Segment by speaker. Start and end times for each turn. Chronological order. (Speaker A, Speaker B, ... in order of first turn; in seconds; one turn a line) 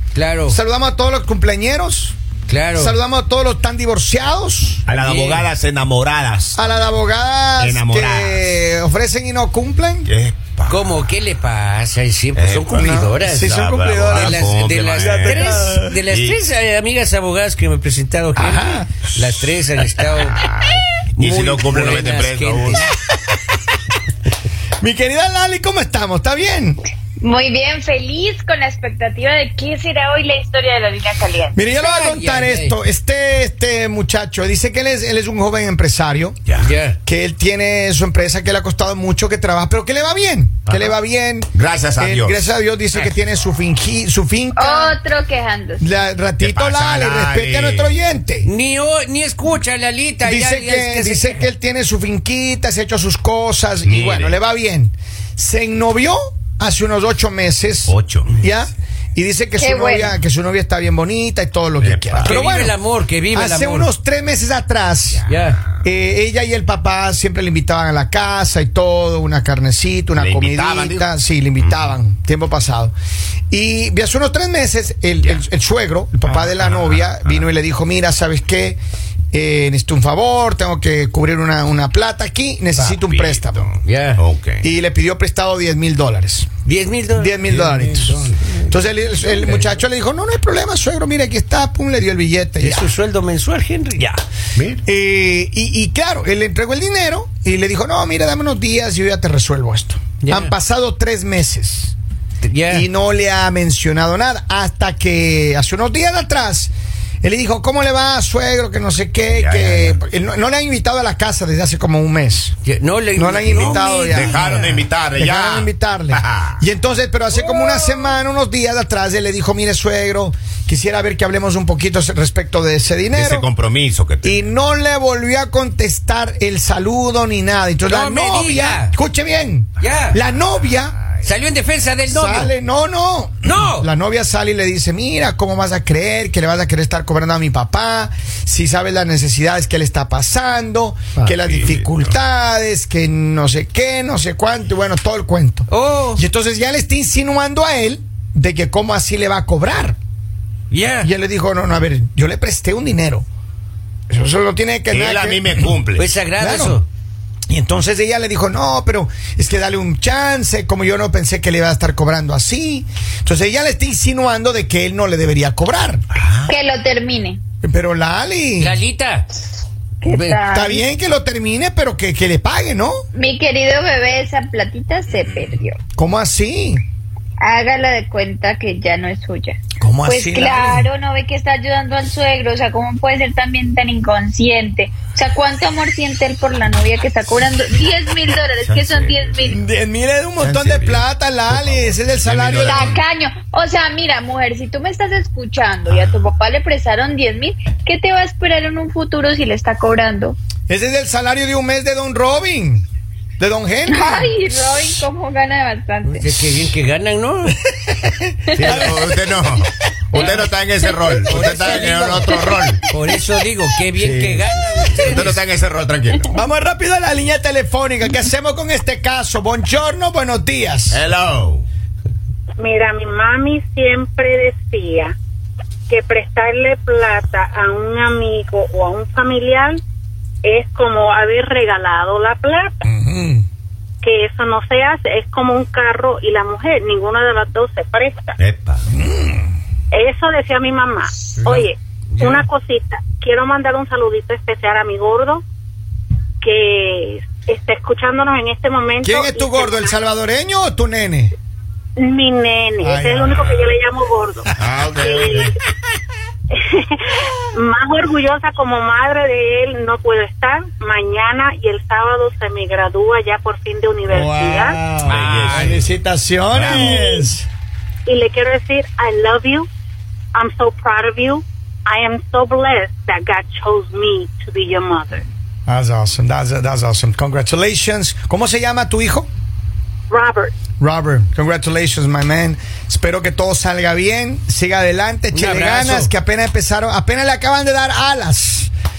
Speaker A: 0.1-0.6
Speaker B: 0.5-2.1
Speaker A: 2.5-3.0
Speaker B: 2.7-4.8
Speaker C: 4.8-6.7
Speaker A: 4.9-5.5
Speaker B: 6.5-10.1
Speaker C: 7.6-8.4
Speaker C: 10.0-10.8
Speaker A: 10.7-13.5
Speaker C: 12.3-12.9
Speaker B: 12.7-15.9
Speaker C: 13.4-16.4
Speaker A: 14.1-20.4
Speaker B: 18.4-18.9
Speaker C: 19.9-22.8
Speaker A: 21.2-22.9
Speaker B: 24.8-26.8
Speaker D: 27.2-31.6
Speaker B: 31.5-36.4
Speaker A: 31.8-32.8
Speaker A: 36.6-37.0
Speaker B: 37.0-45.0
Speaker C: 40.6-40.9
Speaker C: 41.5-42.5
Speaker D: 44.5-45.8
Speaker B: 45.8-48.5
Speaker C: 46.4-48.0
Speaker A: 48.4-51.4
Speaker B: 50.2-62.8
Speaker C: 53.8-54.4
Speaker C: 57.9-58.4
Speaker D: 59.6-60.1
Speaker C: 61.8-62.3
Speaker A: 62.2-63.9
Speaker B: 63.3-65.2
Speaker C: 65.2-65.8
Speaker A: 65.2-65.6
Speaker B: 65.8-72.9
Speaker C: 70.2-71.1
Speaker C: 71.6-71.9
Speaker B: 73.5-78.8
Speaker C: 76.3-77.5
Speaker B: 79.3-83.7
Speaker C: 82.8-84.7
Speaker A: 83.8-84.2
Speaker B: 84.6-86.5
Speaker A: 86.6-87.3
Speaker B: 87.2-92.9
Speaker C: 87.5-88.5
Speaker A: 92.6-94.2
Speaker C: 94.5-94.8
Speaker B: 94.8-101.9
Speaker A: 100.2-100.5
Speaker A: 102.4-102.9
Speaker B: 102.7-112.5
Speaker C: 109.3-110.0
Speaker A: 112.6-114.7
Speaker B: 113.1-123.5
Speaker C: 113.5-116.6
Speaker A: 117.3-118.1
Speaker C: 123.1-124.4
Speaker B: 124.2-130.9
Speaker A: 127.8-128.9
Speaker A: 129.8-130.2
Speaker A: 131.2-132.5
Speaker B: 132.1-150.0
Speaker A: 133.4-133.9
Speaker C: 141.2-142.1
Speaker A: 145.7-146.2
Speaker A: 150.7-151.1
Speaker B: 151.0-153.2
Speaker B: 154.1-155.7
Speaker C: 154.9-156.1
Speaker A: 155.9-156.8
Speaker B: 156.4-156.8
Speaker B: 157.5-166.0
Speaker D: 166.5-167.4
Speaker B: 167.6-168.8
Speaker A: 168.6-169.3
Speaker D: 170.0-170.8
Speaker A: 170.1-170.4
Speaker B: 170.5-173.0
Speaker D: 173.1-175.8
Speaker B: 175.9-176.8
Speaker D: 177.4-189.6
Speaker B: 179.8-180.9
Speaker C: 188.5-189.5
Speaker B: 189.5-193.0
Speaker C: 190.4-193.0
Speaker D: 192.6-200.4
Speaker C: 195.9-196.3
Speaker B: 200.7-202.8
Speaker B: 203.4-204.3
Speaker D: 203.9-206.4
Speaker A: 206.0-207.6
Speaker B: 207.7-209.2
Speaker C: 208.5-212.8
Speaker A: 210.1-210.4
Speaker A: 211.2-215.4
Speaker C: 214.0-216.4
Speaker B: 216.3-221.0
Speaker C: 220.9-221.6
Speaker E: 222.6-225.1
Speaker E: 225.9-229.8
Speaker E: 230.4-232.8
Speaker B: 232.8-233.4
Speaker E: 234.0-238.4
Speaker C: 238.4-238.8
Speaker B: 238.9-239.5
Speaker E: 239.9-245.4
Speaker E: 246.4-250.0
Speaker B: 249.0-251.3
Speaker E: 252.0-255.5
Speaker B: 252.8-253.7
Speaker C: 254.6-255.5
Speaker E: 256.5-264.8
Speaker B: 264.1-267.5
Speaker C: 265.0-265.9
Speaker A: 265.1-265.8
Speaker C: 266.5-267.1
Speaker E: 268.1-269.7
Speaker E: 270.3-275.2
Speaker B: 275.7-279.3
Speaker E: 280.1-280.5
Speaker B: 280.8-288.7
Speaker A: 285.3-286.1